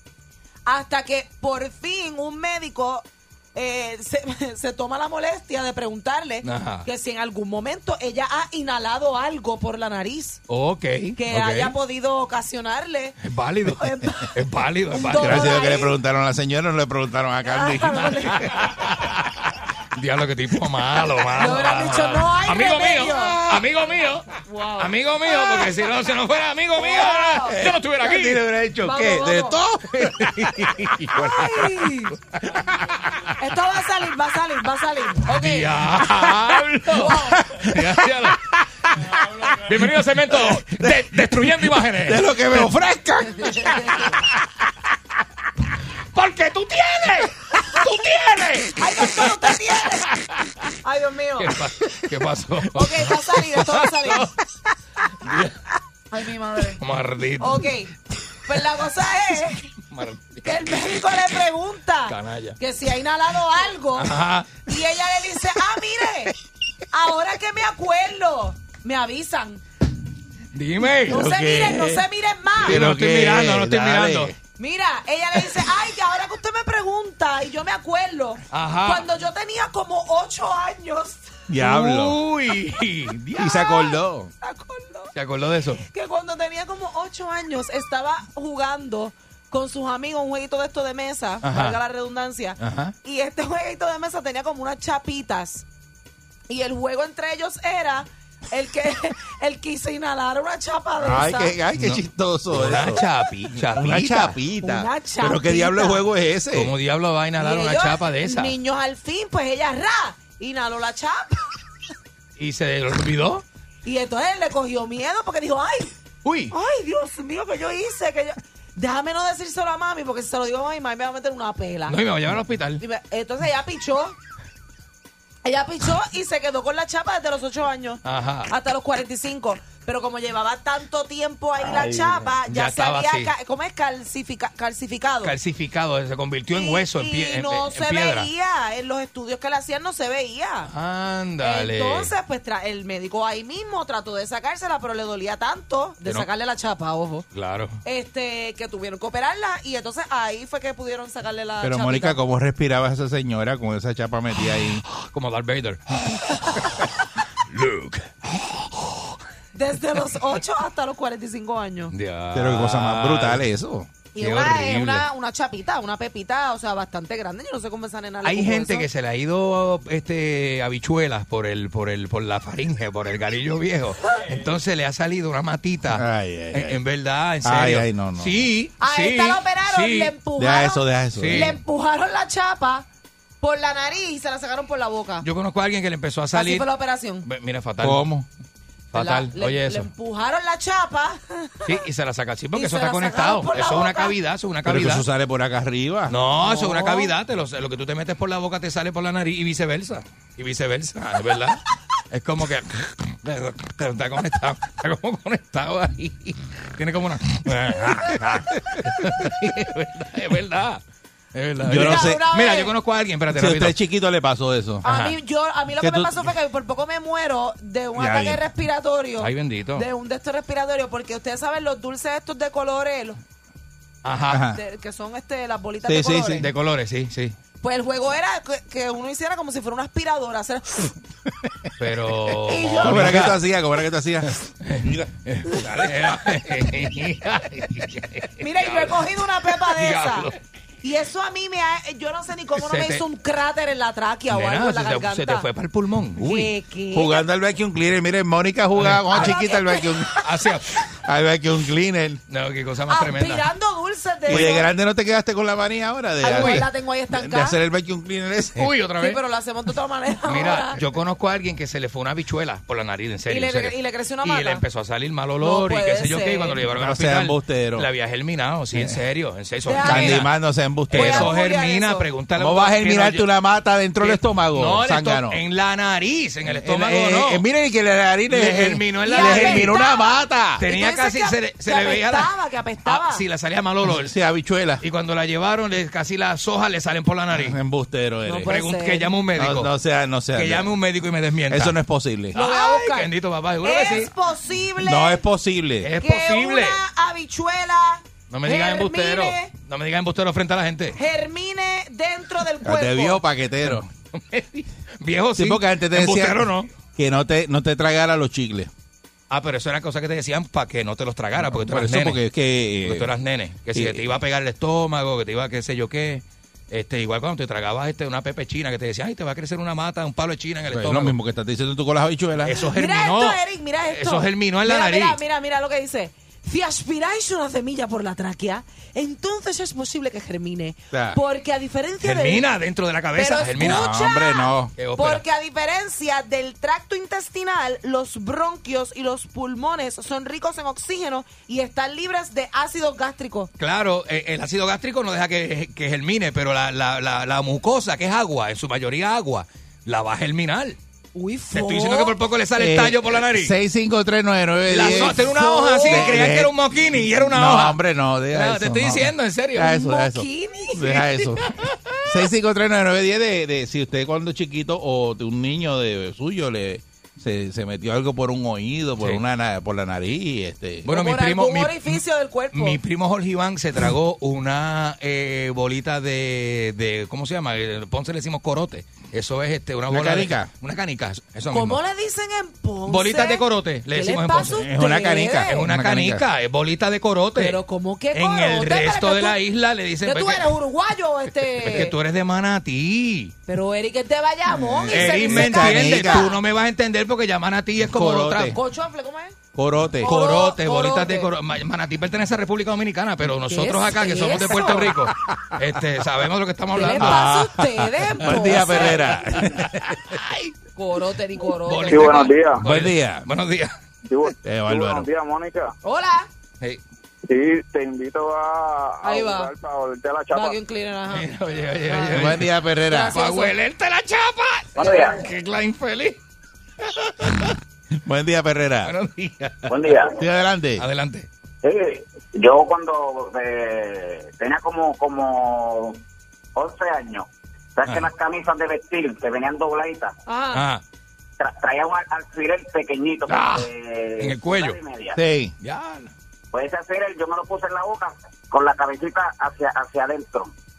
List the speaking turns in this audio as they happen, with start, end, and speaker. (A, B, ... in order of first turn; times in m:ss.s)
0:00.6-0:10.4 A
0:06.4-0:06.9 B
0:10.5-0:11.8 B
0:11.2-0:14.3 A
0:13.2-0:15.6 B
0:14.9-0:15.9 A
0:15.1-0:18.5 C
0:17.4-0:18.5 A
0:18.3-0:24.3 B
0:21.4-0:23.5 A
0:24.5-0:25.7 A
0:24.8-0:28.4 B
0:26.8-0:27.6 A
0:27.5-0:30.7 C
0:28.8-0:29.6 A
0:30.0-0:31.8 B
0:31.1-0:32.1 A
0:33.4-0:35.8 A
0:35.3-0:38.5 B
0:36.9-0:37.4 A
0:37.0-0:38.4 C
0:39.4-0:43.8 C
0:39.4-0:42.6 B
0:43.4-0:44.2 A
0:46.1-0:49.3 B
0:48.8-0:50.1 A
0:50.1-0:50.4 B
0:50.8-0:51.5 A
0:51.4-0:54.3 B
0:52.7-0:54.3 A
0:55.2-0:55.6 B
0:56.1-0:56.8 A
0:56.8-0:57.7 B
0:57.4-0:57.9 A
0:58.5-0:59.7 A
0:59.9-1:00.9 B
1:00.4-1:06.3 A
1:02.1-1:02.6 B
1:04.0-1:04.6 B
1:06.9-1:09.6 A
1:10.5-1:11.3 B
1:11.0-1:12.8 A
1:11.1-1:12.0 C
1:12.6-1:14.3 C
1:12.6-1:14.3 B
1:14.6-1:21.3 A
1:18.5-1:19.1 B
1:21.5-1:22.2 C
1:21.6-1:23.7 B
1:23.4-1:24.3 C
1:23.5-1:25.1 A
1:25.1-1:25.8 B
1:25.8-1:35.6 A
1:31.4-1:31.8 B
1:32.6-1:32.9 B
1:36.5-1:41.5 A
1:41.0-1:43.0 C
1:41.8-1:44.4 B
1:43.7-1:46.7 C
1:44.6-1:46.0 A
1:46.5-1:48.5 B
1:47.4-1:51.5 A
1:52.4-1:53.4 B
1:53.8-1:55.9 A
1:56.2-1:56.5 B
1:56.5-2:02.0 A
2:01.9-2:02.8 B
2:02.8-2:04.2 A
2:05.4-2:15.3 A
2:08.0-2:08.5 B
2:11.6-2:13.3 B
2:15.2-2:18.3 B
2:16.5-2:20.7 A
2:20.7-2:22.1 B
2:21.4-2:27.2 A
2:27.3-2:27.8 B
2:27.8-2:32.2 A
2:31.6-2:34.8 C
2:34.9-2:36.2 B
2:37.5-2:38.1 B
2:39.5-2:41.9 A
2:41.9-2:43.4 B
2:42.3-2:43.9 C
2:44.1-2:48.8 A
2:44.2-2:45.0 B
2:48.2-3:00.1 B
2:55.9-2:56.8 C
2:57.4-2:58.5 C
2:58.8-3:02.8 A
3:00.4-3:01.6 C
3:01.2-3:01.6 B
3:03.4-3:05.2 A
3:05.2-3:06.7 B
3:06.3-3:07.2 A
3:07.2-3:08.1 B
3:07.8-3:08.3 C
3:08.9-3:09.9 B
3:08.9-3:11.8 A
3:11.6-3:15.0 B
3:12.5-3:14.1 A
3:14.6-3:16.2 C
3:16.1-3:30.8 B
3:16.4-3:17.1 A
3:31.3-3:33.8 B
3:31.6-3:32.2 C
3:31.7-3:32.7 A
3:33.3-3:34.8 C
3:34.8-3:43.2 A
3:34.8-3:35.2 B
3:35.8-3:36.3 C
3:37.9-3:38.4 C
3:39.2-3:39.8 B
3:44.0-3:44.5 B
3:44.3-3:44.6 C
3:44.5-3:46.4 A
3:45.8-3:46.5 C
3:46.4-3:47.4 B
3:47.6-3:50.9 A
3:51.8-3:53.4 B
3:52.5-3:53.3 A
3:52.7-3:56.4 C
3:54.6-4:00.4 B
3:58.4-4:00.3 A
4:00.8-4:05.5 A
4:02.6-4:03.0 B
4:04.3-4:06.5 B
4:06.2-4:07.2 A
4:06.9-4:10.2 C
4:08.7-4:09.4 B
4:09.1-4:10.0 A
4:10.2-4:10.7 B
4:11.0-4:12.2 C
4:12.3-4:13.5 B
4:12.9-4:14.7 A
4:14.3-4:18.7 C
4:16.2-4:17.6 A
4:16.2-4:16.6 B
4:18.6-4:19.2 B
4:19.0-4:20.8 A
4:20.2-4:30.3 B
4:23.3-4:24.6 A
4:25.4-4:26.6 A
4:26.7-4:27.9 C
4:29.6-4:30.3 A
4:29.8-4:31.3 C
4:30.9-4:32.1 A
4:30.9-4:33.3 B
4:32.4-4:35.4 C
4:34.0-4:37.4 B
4:36.5-4:40.6 C
4:38.3-4:39.7 B
4:39.0-4:43.2 A
4:40.6-4:42.3 B
4:42.8-4:44.1 B
4:43.8-4:44.8 C
4:44.8-4:47.6 B
4:47.3-4:48.5 C
4:48.2-4:49.1 A
4:48.4-4:49.7 B
4:49.4-4:50.7 C
4:50.3-4:51.7 B
4:51.5-4:52.4 C
4:52.3-4:54.1 B
4:52.3-4:53.1 A
4:53.6-4:55.2 A
4:54.8-4:55.9 C
4:55.8-4:56.8 B
4:56.0-4:59.5 A
4:58.3-5:01.0 B
5:01.0-5:03.2 A
5:02.6-5:03.9 C
5:03.7-5:06.7 B
5:05.4-5:08.7 C
5:09.3-5:12.2 B
5:11.4-5:13.1 C
5:12.8-5:21.1 B
5:13.7-5:14.1 C
5:20.7-5:22.6 C
5:22.4-5:25.2 B
5:22.6-5:32.5 A
5:30.9-5:31.2 C
5:32.0-5:34.0 B
5:33.1-5:43.5 A
5:33.6-5:34.7 C
5:34.8-5:35.2 B
5:43.6-5:50.8 B
5:51.1-5:52.1 A
5:51.5-5:53.5 B
5:52.6-5:56.5 C
5:54.7-5:57.8 B
5:54.8-5:56.1 A
5:57.2-6:01.4 C
5:58.3-5:59.8 B
5:59.6-6:01.1 A
6:02.1-6:10.9 C
6:10.8-6:12.8 A
6:10.9-6:21.8 B
6:19.9-6:20.5 C
6:21.5-6:25.6 A
6:22.9-6:24.6 B
6:24.6-6:26.2 C
6:25.5-6:27.6 B
6:27.4-6:29.4 A
6:28.1-6:30.5 B
6:30.0-6:31.9 A
6:31.6-6:33.3 B
6:33.5-6:36.3 A
6:34.5-6:36.3 C
6:34.9-6:38.6 B
6:37.8-6:38.6 C
6:38.5-6:39.4 A
6:39.5-6:40.1 C
6:40.0-6:41.3 A
6:40.0-6:47.4 B
6:43.4-6:45.1 A
6:46.7-6:49.3 A
6:47.0-6:50.0 C
6:48.2-6:50.5 B
6:50.8-6:52.3 A
6:51.6-6:53.7 B
6:51.9-6:52.6 D
6:52.6-6:53.2 C
6:54.1-6:55.7 D
6:54.4-6:55.1 C
6:55.8-6:56.3 A
6:57.3-7:00.5 D
6:59.0-6:59.5 A
7:00.3-7:01.2 A
7:01.1-7:02.5 B
7:01.9-7:03.5 A
7:02.1-7:03.2 C
7:03.1-7:06.2 B
7:04.7-7:05.2 D
7:06.8-7:07.5 B
7:08.0-7:08.9 C
7:08.8-7:10.1 B
7:09.7-7:10.1 D
7:10.1-7:10.8 C
7:10.8-7:11.3 B
7:11.6-7:16.0 D
7:16.6-7:20.1 D
7:20.3-7:20.6 A
7:20.5-7:20.8 B
7:21.4-7:25.2 D
7:23.3-7:24.8 B
7:25.1-7:25.5 C
7:25.6-7:26.1 B
7:26.5-7:30.5 D